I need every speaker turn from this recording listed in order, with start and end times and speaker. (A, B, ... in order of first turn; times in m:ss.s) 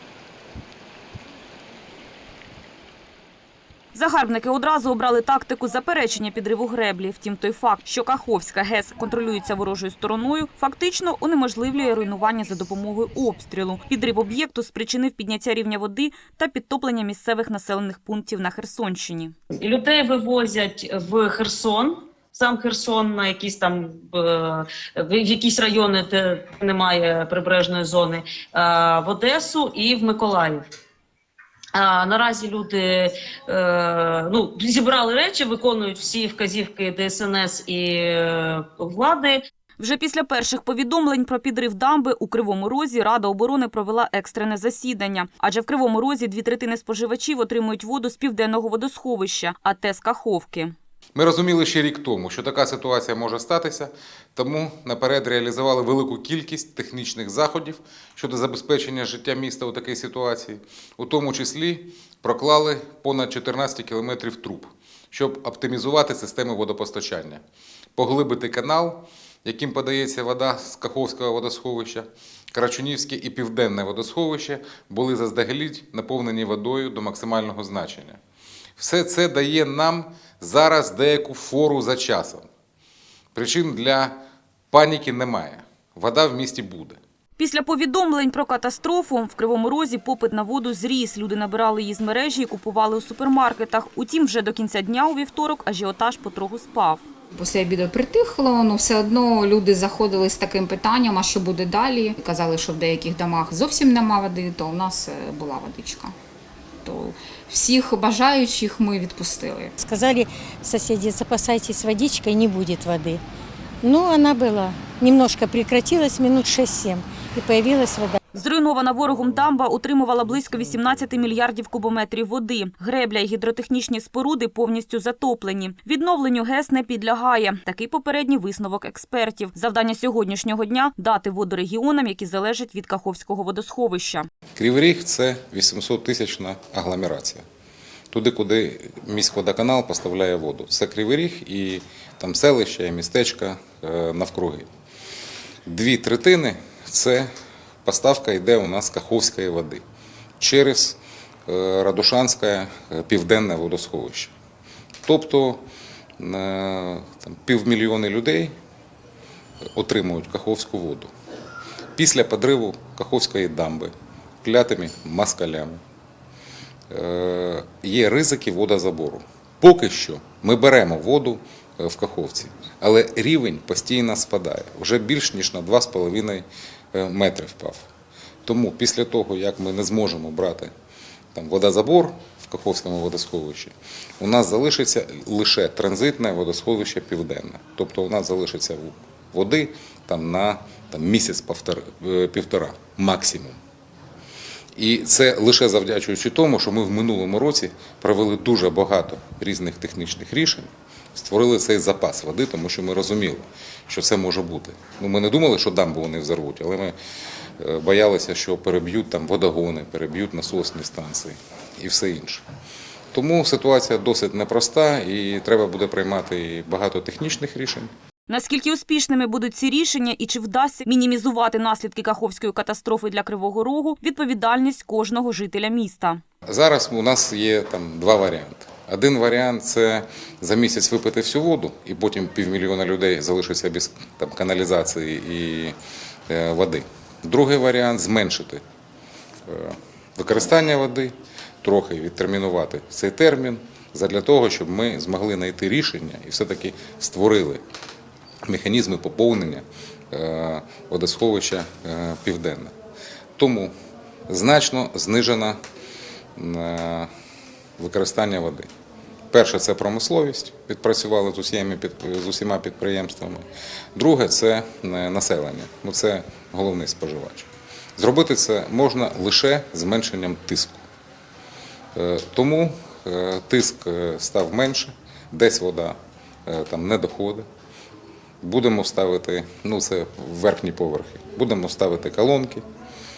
0:03.9-0:19.3 A
0:19.6-0:30.6 B
0:31.8-0:39.4 B
0:39.8-0:50.7 A
0:51.2-1:07.4 C
1:08.0-1:18.2 C
1:18.8-1:22.5 C
1:23.4-1:24.2 C
1:24.7-1:27.0 C
1:27.4-1:37.0 A
1:37.3-1:46.1 D
1:46.8-1:49.7 D
1:49.8-1:53.2 E
1:53.8-1:58.2 E
1:58.3-2:14.3 A
2:14.6-2:17.4 C
2:18.1-2:24.7 C
2:25.7-2:27.3 C
2:27.8-2:29.8 C
2:30.4-2:34.3 C
2:35.0-2:35.6 C
2:36.2-2:38.6 C
2:39.8-2:41.1 C
2:42.0-2:45.8 C
2:46.9-2:57.9 C
2:58.5-3:00.7 C
3:01.4-3:13.6 C
3:14.8-3:27.0 C
3:27.6-3:32.4 C
3:33.1-3:37.9 C
3:38.3-3:46.2 A
3:46.5-3:55.8 C
3:56.3-3:58.6 C
3:59.5-4:07.6 C
4:08.5-4:12.7 C
4:13.4-4:13.7 C
4:14.3-4:15.6 C
4:16.4-4:17.1 C
4:17.8-4:18.7 C
4:19.3-4:30.8 C
4:32.0-4:37.5 C
4:38.4-4:42.6 C